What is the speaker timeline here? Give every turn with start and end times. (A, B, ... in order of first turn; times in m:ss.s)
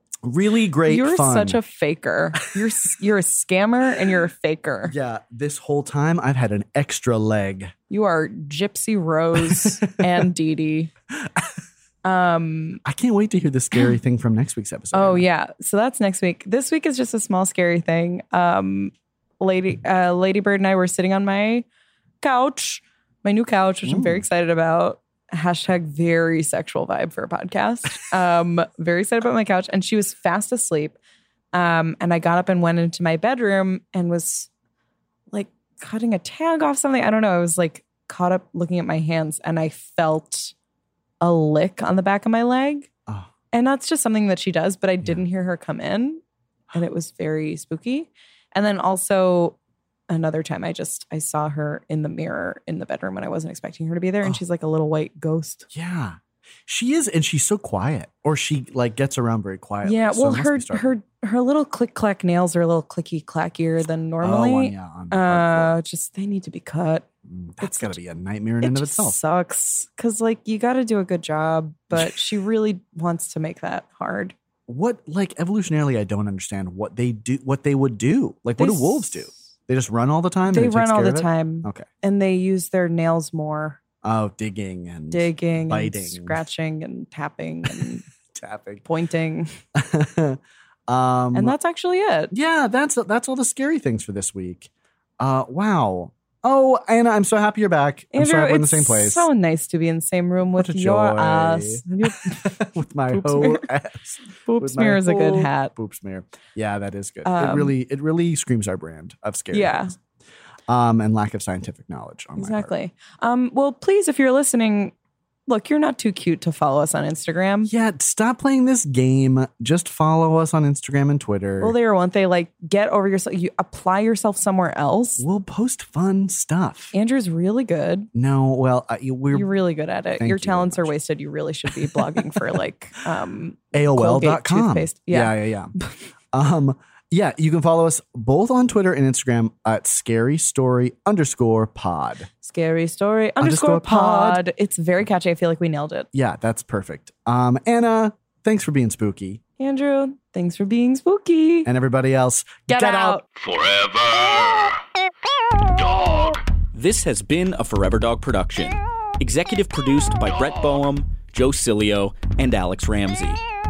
0:00.2-0:01.6 A
0:00.9-0:04.9 B
0:04.9-0:07.7 A
0:07.9-0:10.9 B
0:09.4-0:09.7 A
0:11.2-0:11.5 A
0:12.0-0:12.8 B
0:12.8-0:15.2 A
0:14.9-0:21.6 B
0:22.2-0:31.0 B
0:23.8-0:24.2 A
0:31.5-0:34.5 B
0:35.3-0:40.5 B
0:41.2-0:42.9 B
0:43.5-0:46.2 B
0:46.7-0:49.6 B
0:50.1-0:55.7 B
0:55.7-1:00.9 A
0:59.8-1:07.0 B
1:04.2-1:05.8 A
1:07.2-1:09.2 A
1:07.6-1:08.0 B
1:08.6-1:14.3 B
1:14.7-1:21.8 A
1:18.6-1:19.3 B
1:20.5-1:23.8 B
1:24.0-1:26.4 A
1:25.1-1:28.0 B
1:28.3-1:28.8 A
1:28.8-1:29.6 B
1:29.7-1:31.5 A
1:31.3-1:32.3 B
1:32.3-1:39.3 A
1:38.1-1:43.7 B
1:40.6-1:49.9 A
1:44.4-1:45.7 B
1:47.2-1:47.7 B
1:49.5-1:49.9 B
1:50.7-1:52.7 A
1:52.4-1:54.9 B
1:55.5-1:57.7 B
1:57.7-2:01.7 A
2:01.6-2:05.2 B
2:05.2-2:06.9 A
2:06.9-2:08.1 B
2:08.1-2:09.5 A
2:09.3-2:15.9 B
2:10.2-2:10.9 A
2:11.8-2:12.1 A
2:13.7-2:15.7 A
2:16.3-2:22.3 A
2:22.4-2:26.1 B
2:23.4-2:24.4 A
2:26.1-2:29.4 A
2:29.6-2:31.7 B
2:31.6-2:33.2 A
2:32.7-2:33.2 B
2:33.4-2:34.8 C
2:35.7-2:36.4 C
2:36.7-2:43.4 D